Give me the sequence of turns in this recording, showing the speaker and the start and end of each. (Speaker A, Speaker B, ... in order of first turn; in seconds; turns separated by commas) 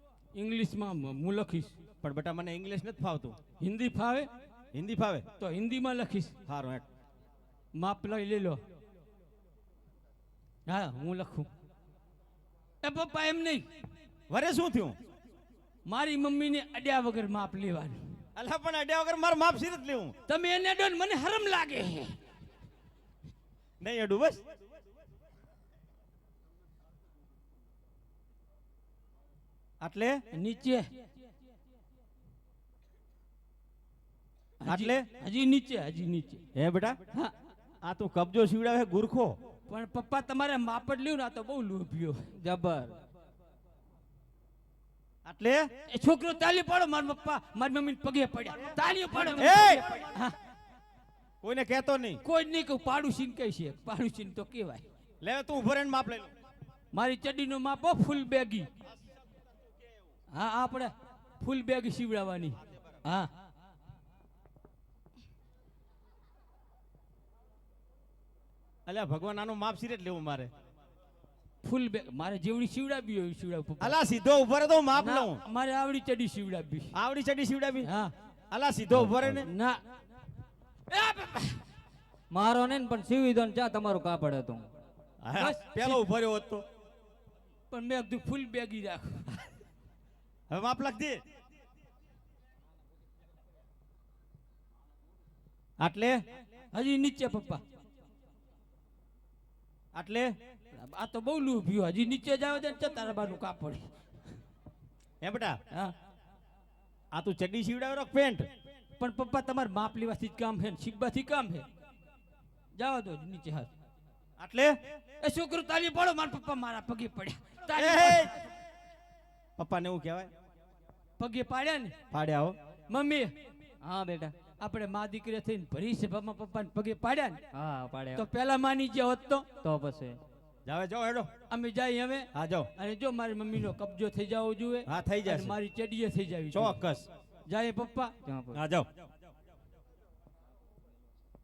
Speaker A: 0.3-1.7, Speaker B: 2.0-3.4, Speaker A: 3.6-4.3, Speaker B: 4.7-5.2, Speaker A: 5.4-6.3, Speaker B: 6.5-6.8, Speaker A: 7.7-8.6, Speaker A: 10.7-11.5, Speaker A: 12.8-13.7, Speaker B: 14.3-14.9, Speaker A: 15.9-18.0, Speaker B: 18.4-20.1, Speaker A: 20.3-22.1, Speaker B: 23.8-24.4, Speaker B: 29.8-30.2, Speaker A: 30.3-30.9, Speaker A: 34.6-36.4, Speaker B: 34.7-35.1, Speaker B: 36.5-37.0, Speaker B: 37.8-39.3, Speaker A: 39.7-42.3, Speaker C: 42.4-42.9, Speaker B: 45.2-45.7, Speaker A: 45.9-50.3, Speaker B: 49.4-50.0, Speaker B: 51.4-52.2, Speaker A: 52.2-54.8, Speaker B: 55.2-56.3, Speaker A: 56.9-58.7, Speaker A: 60.3-63.3, Speaker B: 68.8-70.5, Speaker A: 71.6-74.0, Speaker B: 73.8-75.4, Speaker A: 75.0-76.9, Speaker B: 76.9-77.9, Speaker A: 77.8-78.1, Speaker B: 78.5-79.5, Speaker A: 79.4-79.8, Speaker A: 80.9-81.6, Speaker C: 82.3-84.7, Speaker B: 85.2-86.6, Speaker A: 85.3-86.0, Speaker A: 87.7-89.3, Speaker B: 90.5-91.2, Speaker B: 95.8-96.2, Speaker A: 96.7-97.6, Speaker B: 99.9-100.3, Speaker A: 100.7-103.9, Speaker B: 105.2-105.6, Speaker B: 107.1-108.4, Speaker A: 109.0-111.7, Speaker A: 112.8-113.7, Speaker B: 114.4-114.8, Speaker A: 115.2-118.4, Speaker B: 117.7-118.3, Speaker B: 119.6-120.3, Speaker A: 121.2-121.9, Speaker B: 122.1-122.5, Speaker A: 122.9-123.3, Speaker C: 123.8-124.3, Speaker A: 124.6-127.4, Speaker C: 127.5-128.2, Speaker A: 128.2-129.4, Speaker C: 129.6-130.2, Speaker B: 130.7-131.3, Speaker A: 131.5-136.8, Speaker B: 132.3-132.7, Speaker B: 134.9-135.6, Speaker B: 136.5-137.1, Speaker A: 137.5-138.1, Speaker C: 138.2-138.6, Speaker B: 138.5-138.9